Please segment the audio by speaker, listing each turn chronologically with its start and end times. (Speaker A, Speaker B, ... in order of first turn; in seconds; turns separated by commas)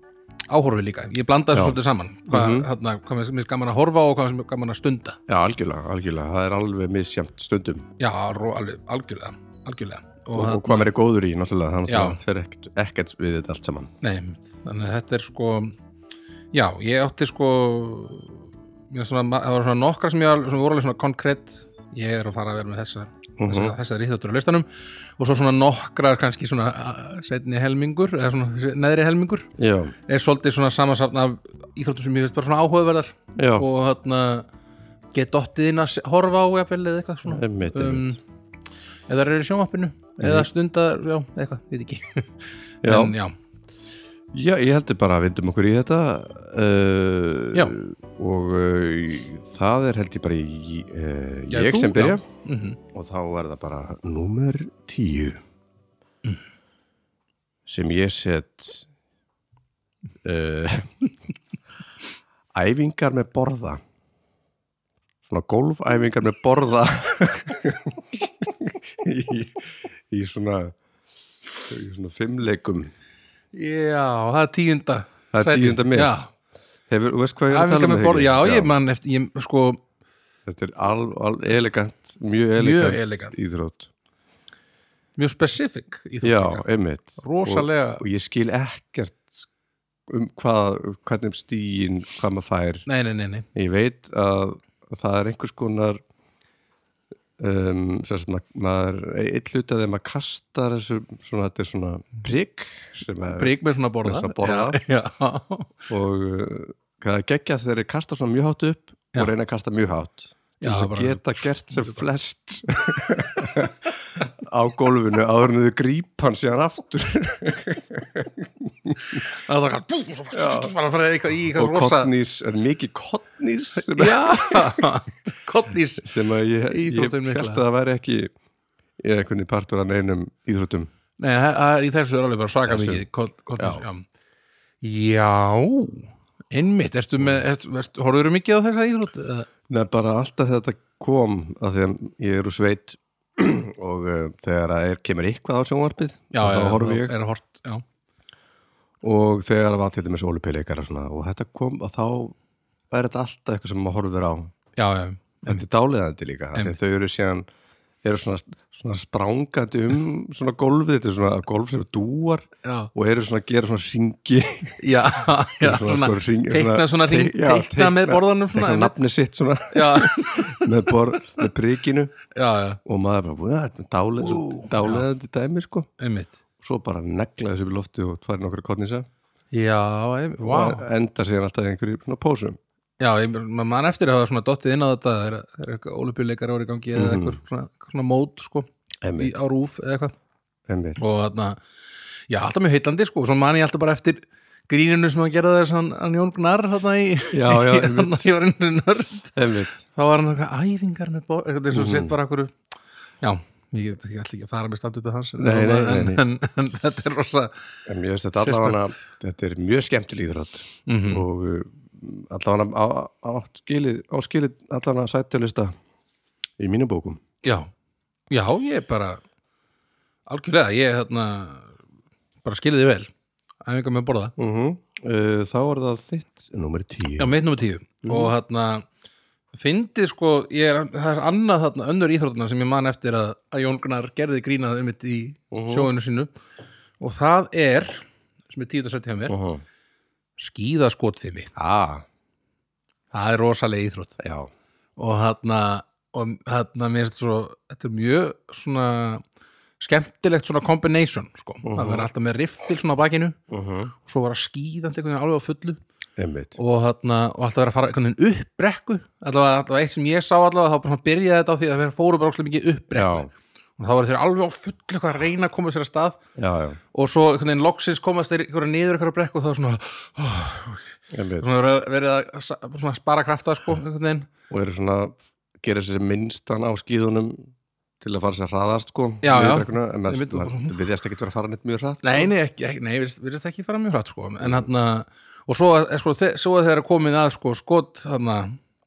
Speaker A: 0.5-5.2, Speaker B: 1.5-2.7, Speaker B: 5.3-7.8, Speaker A: 8.0-10.9, Speaker B: 10.3-13.9, Speaker A: 11.9-12.2, Speaker A: 14.0-15.8, Speaker A: 16.5-24.7, Speaker B: 23.4-23.8, Speaker A: 25.2-29.5, Speaker B: 29.6-29.9, Speaker A: 30.1-34.5, Speaker B: 33.4-33.7, Speaker A: 35.1-38.2, Speaker B: 37.2-38.2, Speaker A: 39.1-43.3, Speaker B: 40.2-40.5, Speaker B: 42.8-43.1, Speaker B: 44.3-52.2, Speaker A: 51.5-52.8, Speaker B: 52.9-55.4, Speaker B: 57.6-58.9, Speaker B: 60.2-60.9, Speaker B: 62.5-63.8, Speaker B: 65.2-70.8, Speaker B: 71.6-72.9, Speaker A: 73.5-76.3, Speaker B: 75.3-76.2, Speaker B: 76.9-78.7, Speaker A: 77.5-79.8, Speaker B: 80.5-83.9, Speaker A: 82.6-83.3, Speaker A: 85.2-86.6, Speaker B: 86.2-89.4, Speaker A: 87.2-88.0, Speaker B: 90.1-92.9, Speaker A: 92.9-93.5, Speaker B: 93.5-96.0, Speaker B: 97.4-104.8, Speaker A: 103.4-105.9, Speaker B: 105.9-119.2, Speaker A: 110.6-112.0, Speaker A: 119.1-122.1, Speaker B: 120.3-120.7, Speaker B: 121.5-124.9, Speaker A: 123.8-126.1, Speaker B: 126.0-128.3, Speaker A: 126.7-127.6, Speaker B: 129.0-130.9, Speaker A: 131.2-134.1, Speaker B: 132.7-133.1, Speaker B: 133.6-133.9, Speaker A: 134.8-139.5, Speaker B: 139.7-147.1, Speaker A: 146.3-147.8, Speaker B: 149.0-152.4, Speaker B: 152.9-154.5, Speaker A: 154.8-155.6, Speaker B: 155.4-157.4, Speaker B: 158.0-164.8, Speaker A: 162.6-162.9, Speaker A: 164.8-169.0, Speaker B: 165.6-172.2, Speaker A: 169.7-170.7, Speaker A: 172.3-172.8, Speaker B: 172.8-175.9, Speaker A: 174.2-175.1, Speaker A: 176.0-176.4, Speaker B: 176.6-179.1, Speaker A: 179.5-180.9, Speaker B: 180.4-182.6, Speaker A: 183.0-190.1, Speaker B: 186.9-187.4, Speaker B: 189.0-189.4, Speaker B: 190.7-191.0, Speaker A: 191.0-191.6, Speaker A: 192.3-199.3, Speaker B: 197.3-198.2, Speaker B: 199.4-199.8, Speaker A: 199.9-202.6, Speaker B: 201.7-202.1, Speaker A: 203.2-207.5, Speaker B: 205.4-206.2, Speaker B: 207.9-215.7, Speaker A: 208.4-208.9, Speaker A: 210.9-211.2, Speaker B: 216.6-217.2, Speaker A: 217.4-217.7, Speaker A: 218.3-219.2, Speaker A: 220.3-221.8, Speaker A: 222.4-223.1, Speaker A: 223.6-224.3, Speaker B: 224.4-227.3, Speaker A: 227.2-228.9, Speaker B: 228.0-228.3, Speaker A: 229.5-236.3, Speaker B: 235.5-235.9, Speaker A: 237.0-239.4, Speaker B: 239.3-239.6, Speaker A: 240.4-241.5, Speaker B: 241.6-242.1, Speaker A: 243.1-244.2, Speaker B: 244.2-244.5, Speaker A: 245.0-249.2, Speaker A: 249.8-253.4, Speaker B: 251.6-252.1, Speaker B: 253.5-253.9, Speaker A: 254.0-255.8, Speaker B: 256.2-256.6, Speaker A: 256.6-266.2, Speaker B: 262.9-263.3, Speaker B: 266.4-266.8, Speaker A: 266.9-274.3, Speaker B: 271.1-271.5, Speaker B: 274.5-282.3, Speaker A: 279.2-280.8, Speaker A: 282.0-288.6, Speaker B: 284.4-284.7